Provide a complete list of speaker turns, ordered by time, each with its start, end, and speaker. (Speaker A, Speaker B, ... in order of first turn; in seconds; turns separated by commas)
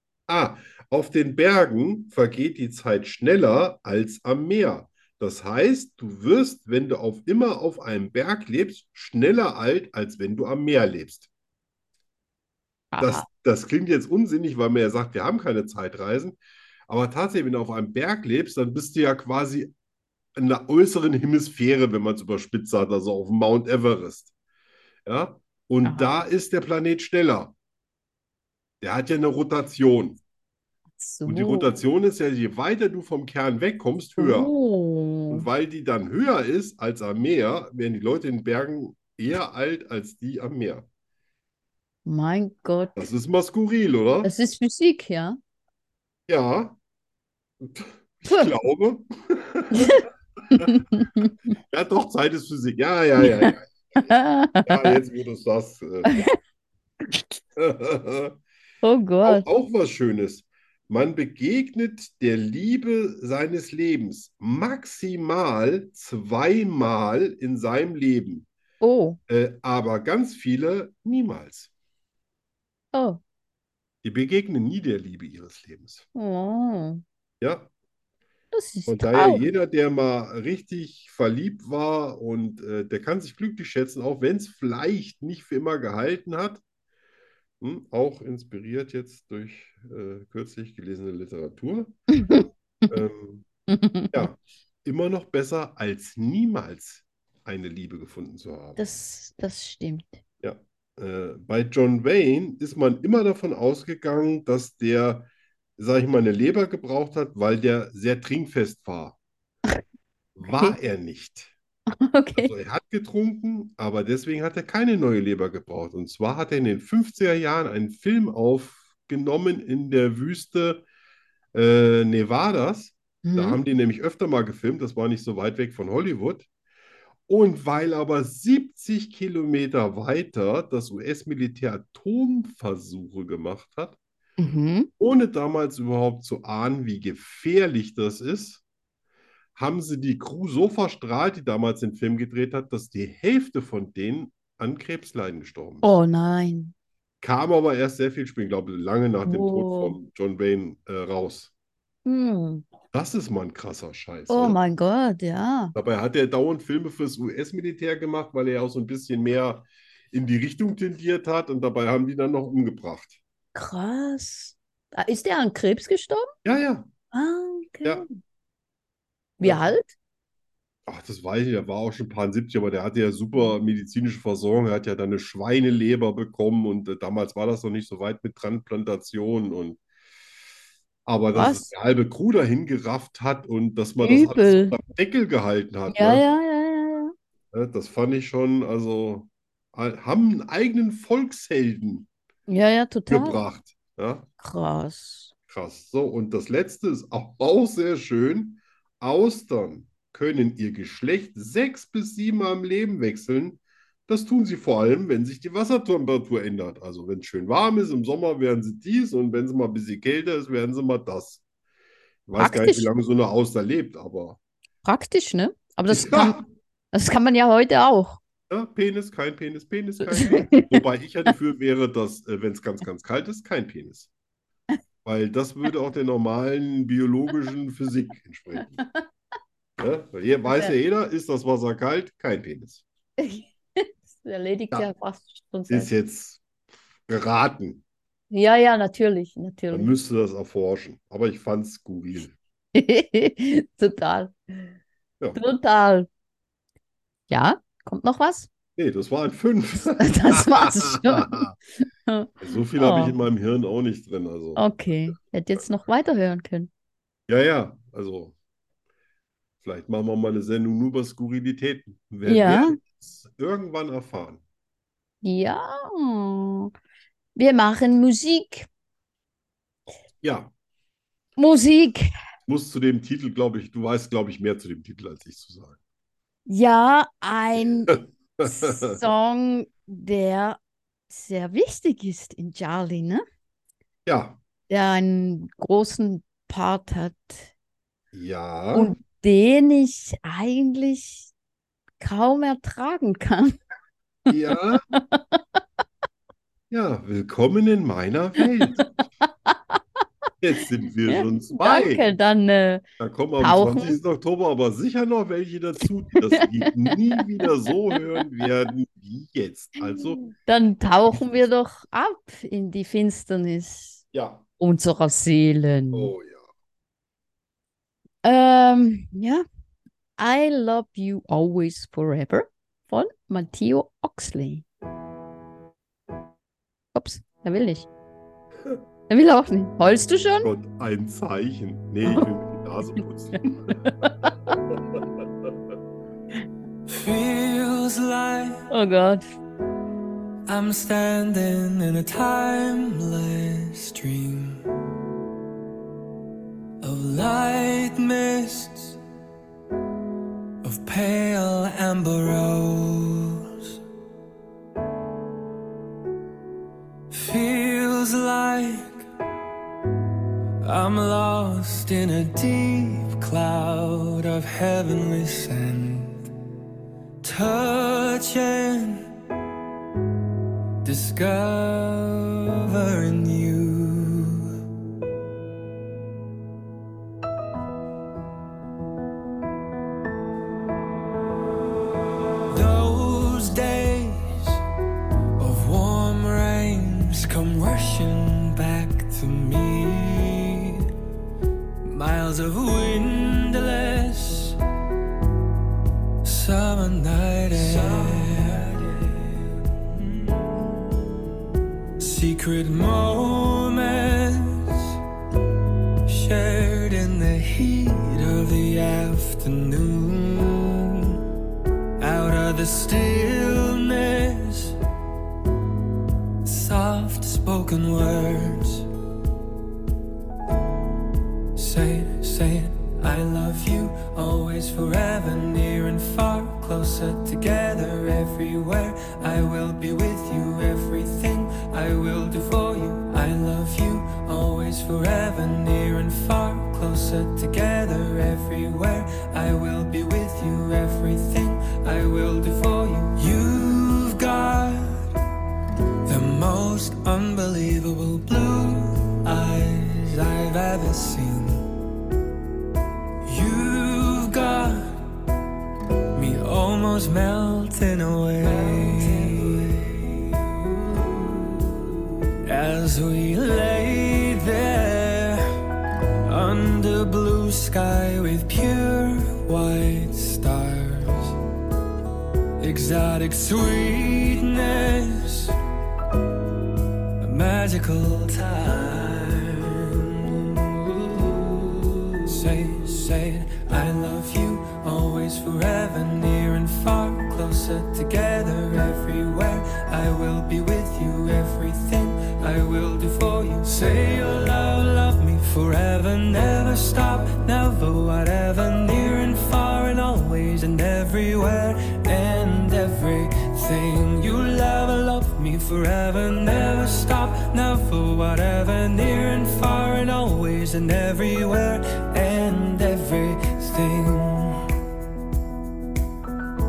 Speaker A: 0.3-11.3, Speaker B: 12.9-13.2, Speaker A: 13.0-19.7, Speaker A: 20.4-24.3, Speaker A: 25.0-27.5, Speaker B: 25.8-26.1, Speaker A: 28.8-30.2, Speaker B: 31.0-31.8, Speaker A: 31.2-34.5, Speaker B: 34.2-35.5, Speaker A: 35.3-40.9, Speaker B: 42.0-43.1, Speaker A: 43.0-44.3, Speaker B: 44.2-45.4, Speaker A: 46.3-46.8, Speaker A: 47.6-50.7, Speaker B: 49.7-51.3, Speaker A: 51.7-53.7, Speaker B: 53.2-53.5, Speaker B: 54.0-55.0, Speaker A: 54.6-56.1, Speaker B: 56.0-56.3, Speaker A: 57.5-58.4, Speaker B: 58.8-59.5, Speaker A: 59.2-68.5, Speaker B: 68.8-69.2, Speaker A: 69.3-71.7, Speaker B: 72.9-73.2, Speaker A: 74.0-76.0, Speaker B: 76.1-77.0, Speaker A: 77.4-77.7, Speaker B: 78.5-79.4, Speaker A: 78.9-86.6, Speaker A: 87.6-92.3, Speaker B: 92.1-92.5, Speaker A: 92.9-93.5, Speaker B: 93.7-94.3, Speaker A: 94.1-98.8, Speaker B: 98.8-100.2, Speaker A: 100.4-109.2, Speaker A: 110.3-111.5, Speaker B: 112.0-112.5, Speaker A: 112.4-120.8, Speaker A: 121.5-126.5, Speaker B: 123.2-123.6, Speaker A: 127.3-134.0, Speaker B: 134.4-134.9, Speaker A: 135.0-138.6, Speaker A: 139.6-145.9, Speaker B: 145.8-146.7, Speaker A: 147.2-151.5, Speaker B: 149.2-150.0, Speaker B: 152.0-152.6, Speaker A: 152.9-154.6, Speaker B: 154.3-155.7, Speaker A: 155.7-163.2, Speaker B: 163.5-166.3, Speaker A: 166.4-166.9, Speaker B: 167.1-168.1, Speaker B: 169.4-169.9, Speaker A: 170.9-179.8, Speaker A: 181.1-186.2, Speaker B: 181.3-181.7, Speaker B: 184.0-184.8, Speaker B: 185.9-187.1, Speaker A: 187.5-192.1, Speaker B: 192.5-193.4, Speaker A: 193.1-194.2, Speaker B: 194.4-195.3, Speaker A: 195.5-211.4, Speaker A: 212.3-214.4, Speaker B: 212.4-212.9, Speaker B: 214.8-216.4, Speaker A: 215.9-216.4, Speaker B: 216.9-218.2, Speaker A: 218.5-224.1, Speaker B: 220.1-220.8, Speaker A: 225.0-228.8, Speaker A: 229.8-232.8, Speaker B: 233.2-235.9, Speaker A: 235.7-236.4, Speaker A: 237.1-237.8, Speaker B: 238.3-239.9, Speaker A: 239.7-242.3, Speaker B: 242.7-244.3, Speaker B: 245.3-246.1, Speaker B: 247.3-248.5, Speaker A: 248.8-251.5, Speaker B: 250.0-251.4, Speaker B: 252.1-253.2, Speaker A: 252.4-255.1, Speaker B: 254.6-256.7, Speaker A: 257.3-258.3, Speaker A: 259.6-264.4, Speaker B: 262.2-262.8, Speaker B: 265.2-266.7, Speaker B: 267.4-268.7, Speaker A: 270.2-270.5, Speaker B: 271.4-272.1, Speaker A: 272.5-275.8, Speaker B: 276.5-280.6, Speaker A: 277.9-279.0, Speaker B: 281.1-283.2, Speaker A: 284.1-284.4, Speaker B: 284.7-287.5, Speaker A: 288.1-288.9, Speaker B: 288.7-291.3, Speaker B: 292.0-293.5, Speaker A: 294.3-294.8, Speaker B: 294.9-295.4, Speaker A: 296.7-298.9, Speaker A: 300.4-302.1, Speaker B: 301.1-302.8, Speaker A: 303.0-310.2, Speaker B: 303.4-304.0, Speaker B: 309.8-314.0, Speaker A: 314.1-314.4, Speaker B: 314.6-316.1, Speaker A: 315.9-316.5, Speaker B: 318.2-319.4, Speaker B: 320.2-324.6, Speaker B: 326.9-327.9, Speaker B: 329.1-330.5, Speaker A: 330.4-333.8, Speaker B: 333.7-334.3, Speaker A: 334.7-335.5, Speaker C: 336.9-338.7, Speaker B: 338.7-339.2, Speaker C: 340.5-344.6, Speaker C: 346.8-349.0, Speaker C: 350.6-353.5, Speaker C: 357.1-359.0, Speaker C: 360.6-366.3, Speaker C: 367.2-369.1, Speaker C: 370.8-374.5, Speaker C: 382.5-384.6, Speaker C: 385.4-390.9, Speaker C: 391.8-394.6, Speaker C: 396.2-400.8, Speaker C: 402.0-405.0, Speaker C: 406.0-411.2, Speaker C: 412.0-414.8, Speaker C: 416.4-418.9, Speaker C: 421.5-445.1, Speaker C: 446.0-451.7, Speaker C: 453.2-455.1, Speaker C: 456.1-460.4, Speaker C: 462.4-465.4, Speaker C: 466.2-471.4, Speaker C: 472.6-475.6, Speaker C: 477.2-514.6